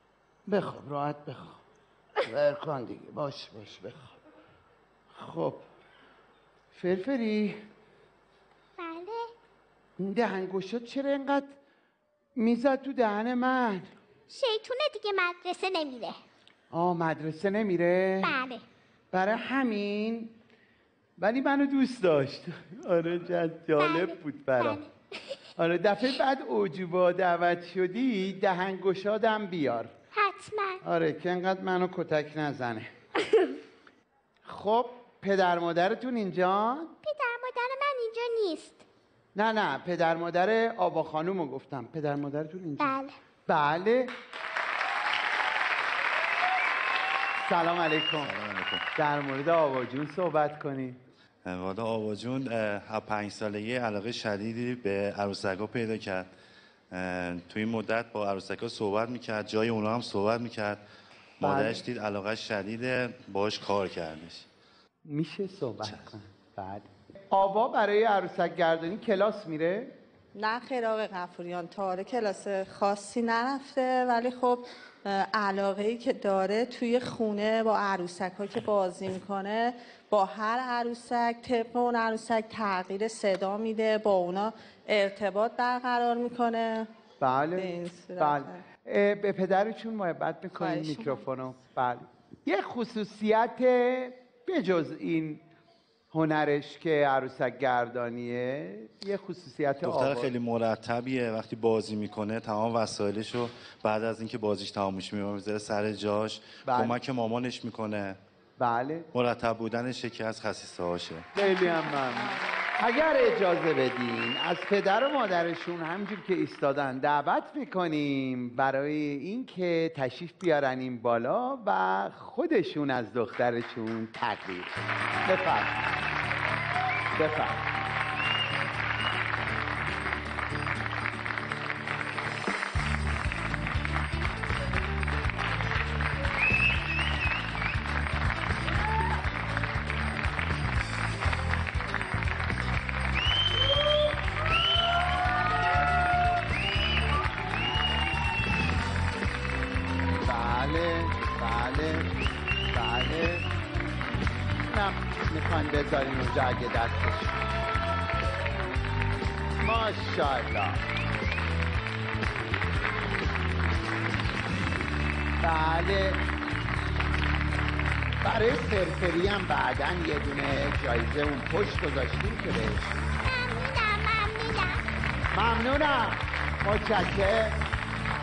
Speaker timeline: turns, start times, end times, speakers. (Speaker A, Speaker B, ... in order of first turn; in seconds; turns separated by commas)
Speaker A: 0.5-1.6, Speaker A: 2.3-4.1, Speaker A: 5.2-5.6, Speaker A: 6.7-7.6, Speaker B: 8.8-9.2, Speaker A: 10.0-11.5, Speaker A: 12.4-13.9, Speaker B: 14.3-16.1, Speaker A: 16.7-18.3, Speaker B: 18.2-18.6, Speaker A: 19.1-20.3, Speaker A: 21.2-24.8, Speaker B: 23.8-24.9, Speaker A: 25.6-29.9, Speaker B: 30.1-30.8, Speaker A: 30.8-32.9, Speaker A: 34.5-36.9, Speaker B: 37.0-38.8, Speaker A: 39.3-42.9, Speaker B: 42.8-43.1, Speaker A: 43.5-44.1, Speaker A: 47.4-48.3, Speaker C: 48.2-48.8, Speaker A: 48.9-51.0, Speaker C: 51.4-56.3, Speaker C: 56.9-60.8, Speaker C: 61.4-64.5, Speaker A: 61.4-61.9, Speaker A: 65.0-69.9, Speaker D: 70.3-86.9, Speaker A: 87.2-95.4, Speaker D: 87.5-88.6, Speaker D: 90.5-91.2, Speaker A: 96.1-100.3, Speaker C: 99.8-108.2, Speaker A: 106.6-107.0, Speaker A: 108.6-109.1, Speaker C: 109.1-111.3, Speaker A: 111.3-125.8, Speaker A: 127.2-127.7, Speaker A: 150.2-152.1, Speaker A: 152.7-153.5, Speaker A: 154.7-157.5, Speaker A: 159.6-160.8, Speaker A: 165.4-166.2, Speaker A: 168.2-173.0, Speaker B: 173.2-174.8, Speaker A: 175.3-177.6